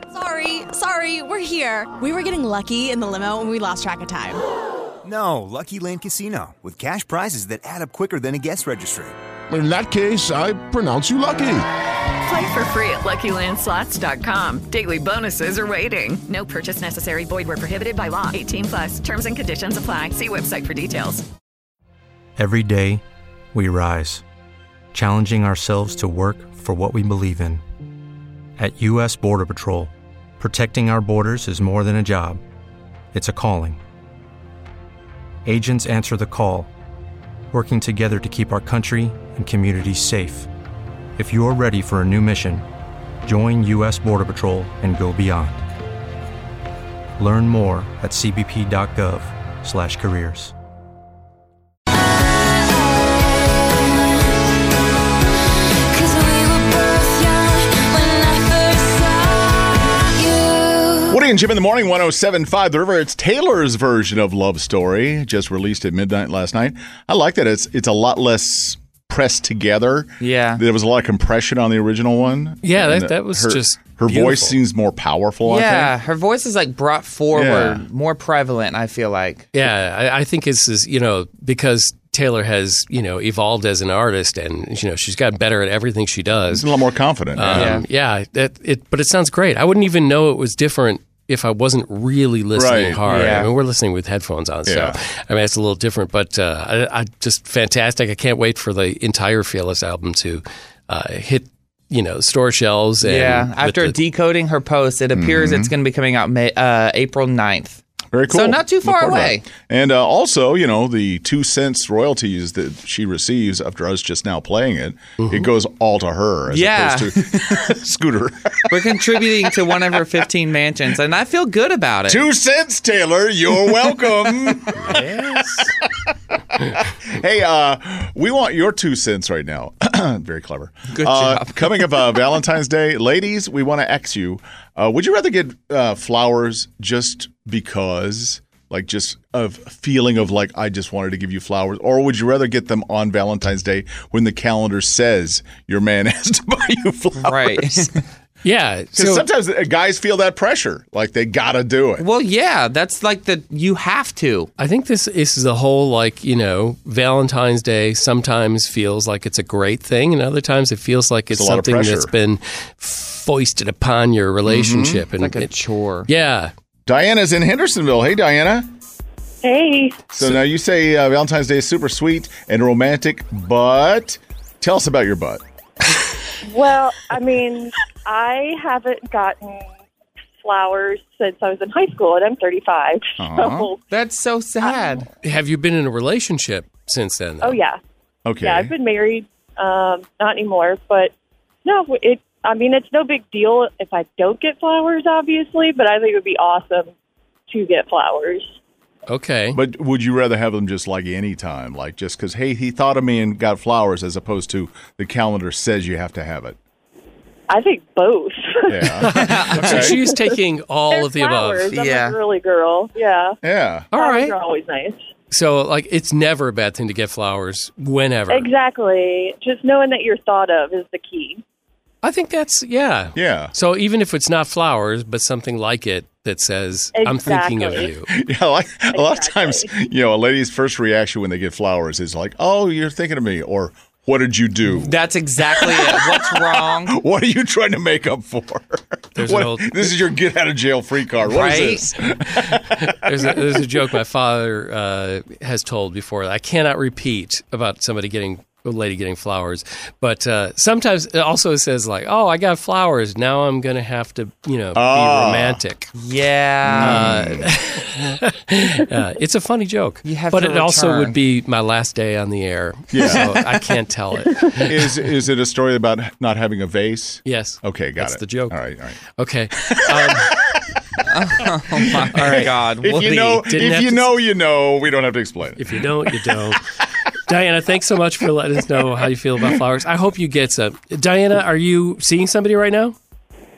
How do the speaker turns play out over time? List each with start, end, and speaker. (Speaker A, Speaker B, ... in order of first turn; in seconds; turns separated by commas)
Speaker A: 0.1-4.4, Speaker B: 5.0-9.2, Speaker C: 9.5-11.7, Speaker D: 12.2-21.2, Speaker E: 22.4-23.0, Speaker E: 23.5-24.2, Speaker E: 24.9-27.6, Speaker E: 28.6-32.4, Speaker E: 33.1-33.8, Speaker E: 35.5-36.7, Speaker E: 37.5-40.5, Speaker E: 41.2-42.6, Speaker E: 43.2-45.6, Speaker E: 47.2-50.5, Speaker F: 55.9-61.0, Speaker G: 61.1-75.9, Speaker H: 70.2-70.6, Speaker I: 72.6-74.6, Speaker H: 75.4-79.5, Speaker G: 77.3-77.8, Speaker I: 79.5-86.7, Speaker G: 86.5-87.8, Speaker I: 87.3-104.0, Speaker H: 87.5-87.8, Speaker G: 92.5-93.1, Speaker H: 93.1-93.5, Speaker G: 94.7-95.0, Speaker H: 103.0-109.5, Speaker G: 105.1-105.7, Speaker G: 108.1-119.9, Speaker I: 115.2-115.5, Speaker H: 116.5-117.8, Speaker H: 118.7-122.3, Speaker G: 122.1-147.9, Speaker I: 124.8-125.7, Speaker H: 130.9-132.3, Speaker H: 147.2-148.0, Speaker I: 148.4-149.2, Speaker G: 148.9-152.1, Speaker H: 152.0-154.5, Speaker I: 154.6-165.5, Speaker G: 161.3-162.1, Speaker G: 164.4-165.0, Speaker H: 165.2-166.1, Speaker I: 166.1-166.5, Speaker G: 166.8-168.7, Speaker J: 169.4-170.0, Speaker G: 170.1-175.4, Speaker J: 176.4-179.7, Speaker J: 180.4-183.8, Speaker G: 183.2-183.7, Speaker H: 183.9-185.1, Speaker J: 184.6-185.0, Speaker I: 185.2-187.6, Speaker J: 187.4-187.8, Speaker G: 188.2-188.7, Speaker J: 188.4-191.1, Speaker J: 191.6-196.9, Speaker J: 197.5-198.5, Speaker I: 199.1-199.6, Speaker G: 199.5-206.6, Speaker J: 207.5-209.1, Speaker G: 208.7-210.0, Speaker I: 209.0-211.7, Speaker H: 209.1-209.9, Speaker J: 209.7-210.3, Speaker J: 210.9-213.4, Speaker H: 211.7-212.2, Speaker G: 213.4-213.9, Speaker I: 213.9-214.3, Speaker J: 213.9-215.0, Speaker I: 215.3-218.5, Speaker J: 218.3-221.4, Speaker I: 222.0-228.1, Speaker G: 223.1-223.5, Speaker J: 226.9-227.9, Speaker G: 228.1-243.6, Speaker J: 228.9-229.7, Speaker H: 234.7-237.0, Speaker I: 239.2-240.0, Speaker H: 241.2-241.9, Speaker I: 242.3-255.9, Speaker G: 254.7-255.6, Speaker H: 256.0-257.1, Speaker G: 256.6-257.5, Speaker I: 256.8-264.7, Speaker H: 260.1-261.2, Speaker G: 262.9-263.3, Speaker H: 263.2-263.6, Speaker G: 264.5-269.0, Speaker I: 267.2-268.6, Speaker I: 269.1-270.3, Speaker G: 269.6-270.6, Speaker H: 271.1-273.5, Speaker G: 272.0-276.5, Speaker I: 272.1-272.5, Speaker I: 273.4-274.1, Speaker I: 275.6-283.0